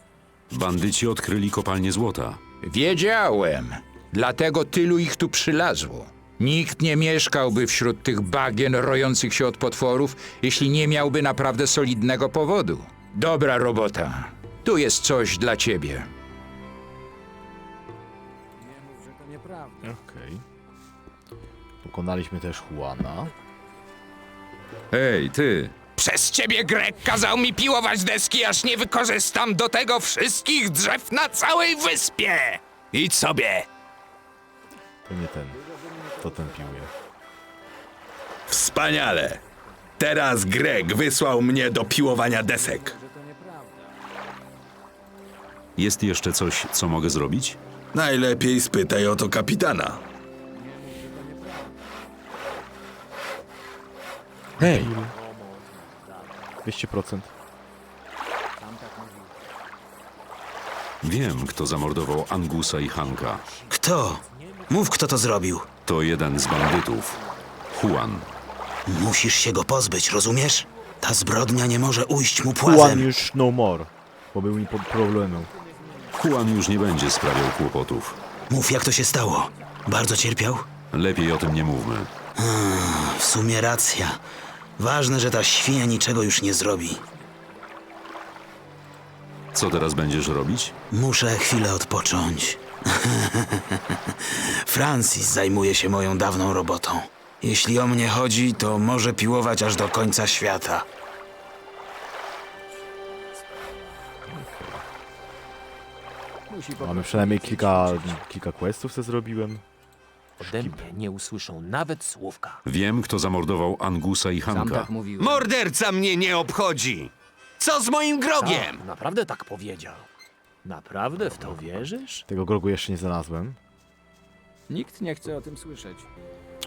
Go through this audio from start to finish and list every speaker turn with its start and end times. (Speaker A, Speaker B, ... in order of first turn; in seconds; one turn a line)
Speaker A: 0.5-2.4
Speaker B: 2.6-16.1
Speaker B: 19.1-19.7
Speaker C: 19.8-20.4
Speaker C: 21.8-23.3
Speaker A: 24.9-25.7
Speaker B: 25.9-33.7
Speaker C: 35.0-35.6
Speaker D: 35.8-36.3
Speaker C: 36.2-36.9
Speaker E: 38.5-39.4
Speaker E: 40.0-43.0
Speaker A: 45.8-47.6
Speaker E: 47.9-50.0
Speaker D: 50.9-51.6
Speaker C: 54.6-55.1
Speaker A: 54.6-54.9
Speaker D: 54.7-56.5
Speaker C: 56.6-57.3
Speaker D: 58.6-59.4
Speaker A: 61.0-63.4
Speaker D: 62.9-63.8
Speaker F: 63.7-65.7
Speaker D: 64.3-64.6
Speaker A: 65.8-67.2
Speaker A: 67.7-68.3
Speaker F: 68.9-73.1
Speaker C: 72.6-75.5
Speaker A: 76.1-78.2
Speaker F: 78.5-80.7
Speaker A: 80.9-82.1
Speaker F: 82.4-84.2
Speaker F: 84.8-87.0
Speaker A: 89.5-90.7
Speaker F: 90.9-100.8
Speaker C: 104.3-104.8
Speaker D: 106.5-108.2
Speaker C: 106.8-109.6
Speaker C: 110.4-110.8
Speaker D: 110.4-112.6
Speaker A: 112.6-114.9
Speaker B: 114.5-115.4
Speaker G: 115.2-118.8
Speaker D: 118.4-120.1
Speaker D: 120.6-122.2
Speaker C: 122.2-123.6
Speaker B: 124.7-126.0